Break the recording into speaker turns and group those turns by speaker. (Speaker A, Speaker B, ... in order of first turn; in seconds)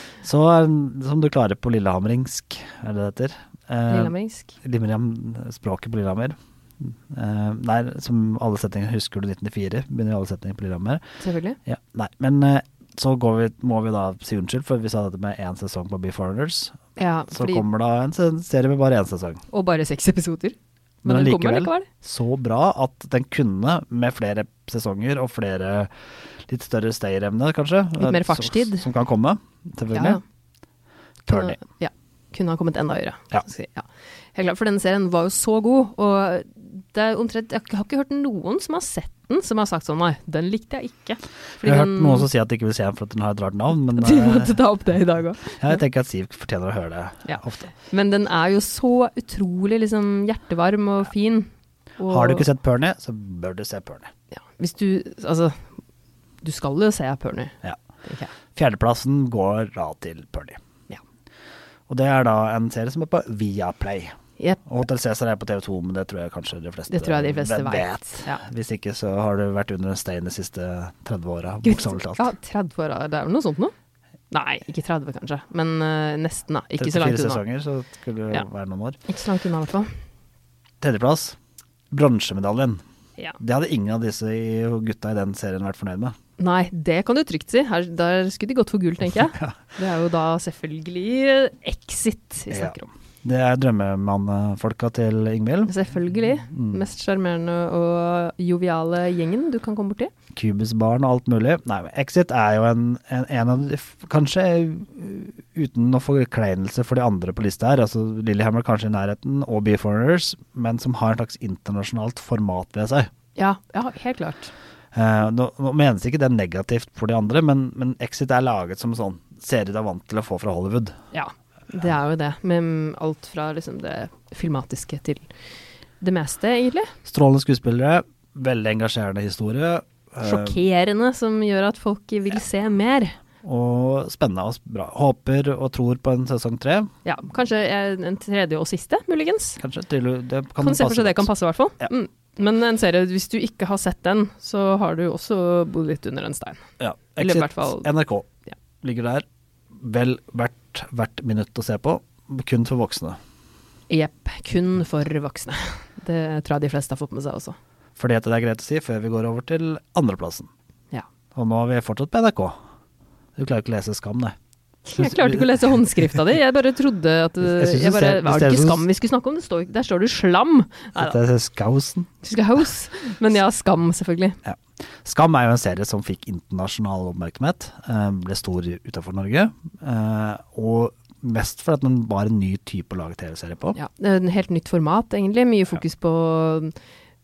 Speaker A: 0.2-11.0, 11.7-16.8, 17.3-19.4, 21.1-25.9, 26.5-30.2, 31.3-31.6, 41.6-44.6, 45.6-47.7, 52.1-54.1, 58.5-60.6, 61.9-72.2, 76.8-79.0, 80.8-81.4, 81.9-82.8, 83.4-86.2, 92.5-95.8, 96.5-96.8, 100.3-113.1, 114.9-121.0, 127.1-130.6, 133.4-136.9, 139.6-141.9, 146.8-148.3, 148.8-153.2, 158.0-160.5, 161.3-162.6, 163.4-164.3, 165.0-166.1, 167.4-168.9, 171.0-172.1, 174.4-183.8
Speaker B: 3.9-4.5, 11.2-11.6, 17.0-17.6, 19.5-21.9, 28.0-28.9, 29.9-30.2, 31.3-42.3, 44.0-45.8, 47.2-52.5, 54.3-55.7, 56.4-58.3, 66.9-68.4, 71.6-73.7, 74.3-77.4, 79.1-79.9, 86.4-92.9, 95.7-100.1, 113.4-114.5, 121.1-125.3, 126.0-126.9, 130.2-133.2, 137.1-139.6, 140.6-146.6, 147.2-147.9, 153.9-157.6, 164.8-171.2, 172.2-174.4, 183.8-186.7